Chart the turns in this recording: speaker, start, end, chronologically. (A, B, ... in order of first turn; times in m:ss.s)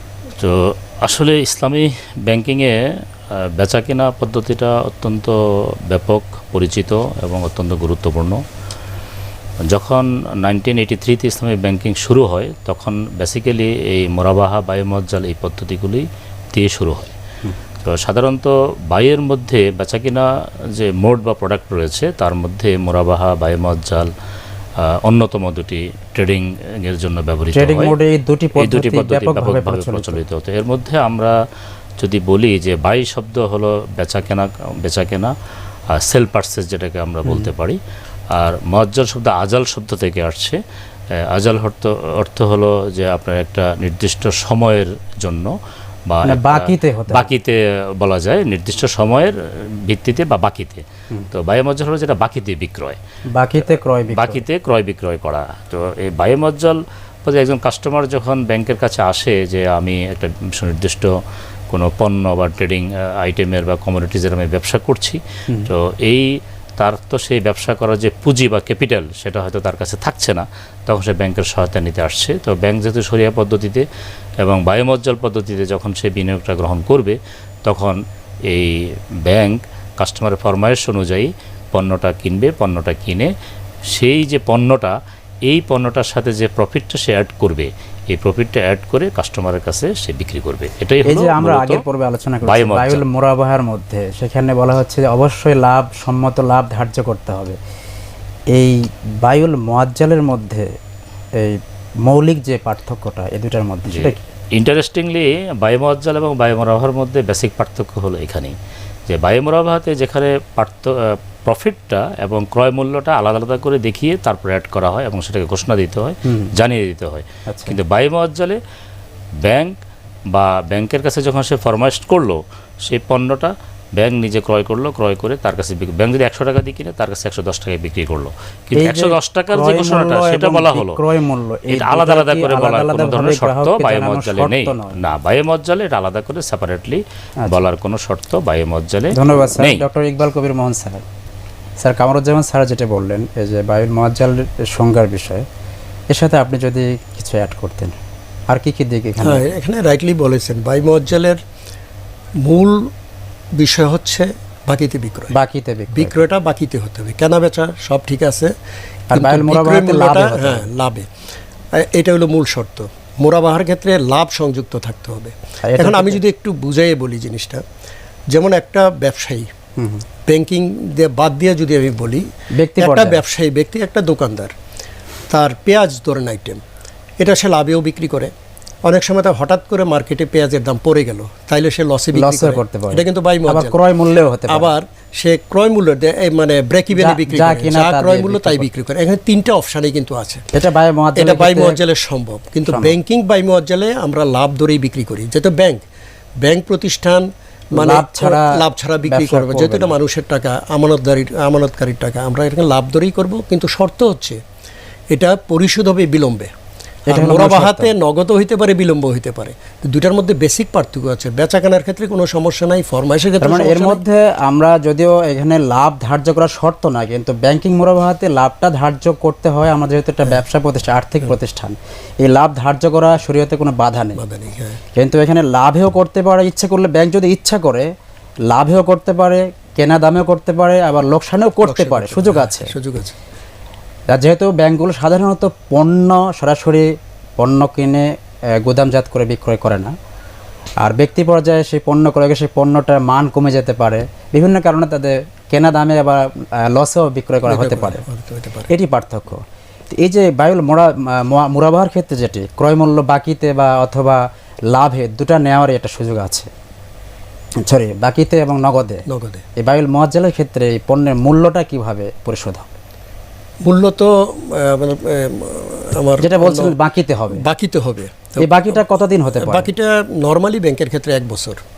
0:00.4-0:02.7 A
0:03.6-0:05.4 A
0:05.9-0:08.4 A
0:09.7-0:17.1 A
0:17.8-0:24.1 A
0:25.0-0:27.9 A
0:27.5-0:30.2 B
0:28.6-0:31.3 A
0:32.0-0:35.3 A
0:36.0-0:37.8 A
0:37.2-0:37.5 B
0:38.4-0:40.6 A
0:41.3-0:45.5 A
0:46.1-0:49.3 A
0:46.2-0:47.3 B
0:49.8-0:53.0 A
0:53.3-0:54.4 B
0:54.1-1:01.1 A
1:01.7-1:06.2 A
1:06.8-1:13.8 A
1:14.4-1:18.0 A
1:18.5-1:23.3 A
1:23.9-1:24.9 A
1:25.5-1:31.8 A
1:31.0-1:37.6 B
1:32.4-1:33.0 A
1:38.5-1:40.7 B
1:41.4-1:44.2 B
1:43.9-1:48.5 A
1:49.1-1:58.6 A
1:56.2-1:56.5 B
1:57.5-1:57.8 B
1:59.4-1:59.7 A
2:00.3-2:11.0 A
2:08.8-2:15.0 B
2:11.7-2:19.8 A
2:19.1-2:21.0 B
2:21.8-2:25.4 B
2:26.1-2:28.0 B
2:28.5-2:29.4 B
2:29.2-2:31.4 C
2:32.4-2:32.9 C
2:33.6-2:35.3 C
2:35.3-2:36.2 B
2:35.9-2:38.5 C
2:39.1-2:40.7 B
2:39.1-2:41.1 C
2:41.7-2:47.6 C
2:45.7-2:46.2 B
2:48.3-2:49.5 C
2:49.8-2:50.0 B
2:50.3-2:52.2 C
2:52.6-2:53.2 B
2:52.8-2:54.5 C
2:55.3-2:56.6 C
2:57.2-2:58.3 C
2:58.8-3:03.8 C
3:02.1-3:04.7 B
3:04.5-3:10.4 C
3:06.9-3:08.7 B
3:10.5-3:11.8 B
3:11.2-3:15.8 C
3:12.6-3:13.0 B
3:16.4-3:24.4 C
3:17.7-3:20.0 B
3:25.1-3:26.5 C
3:27.1-3:27.9 B
3:27.1-3:34.0 C
3:33.4-3:44.2 B
3:44.2-3:44.8 C
3:45.0-3:47.9 B
3:48.5-3:52.7 B
3:51.6-3:53.2 C
3:54.1-3:56.9 B
3:57.4-3:59.9 B
4:00.8-4:08.0 B
4:07.4-4:08.7 C
4:08.7-4:16.5 B
4:17.6-4:19.0 B
4:19.1-4:19.4 C
4:19.6-4:22.6 B
4:23.6-4:26.7 C
4:26.2-4:27.4 B
4:27.3-4:31.6 C
4:28.4-4:29.7 B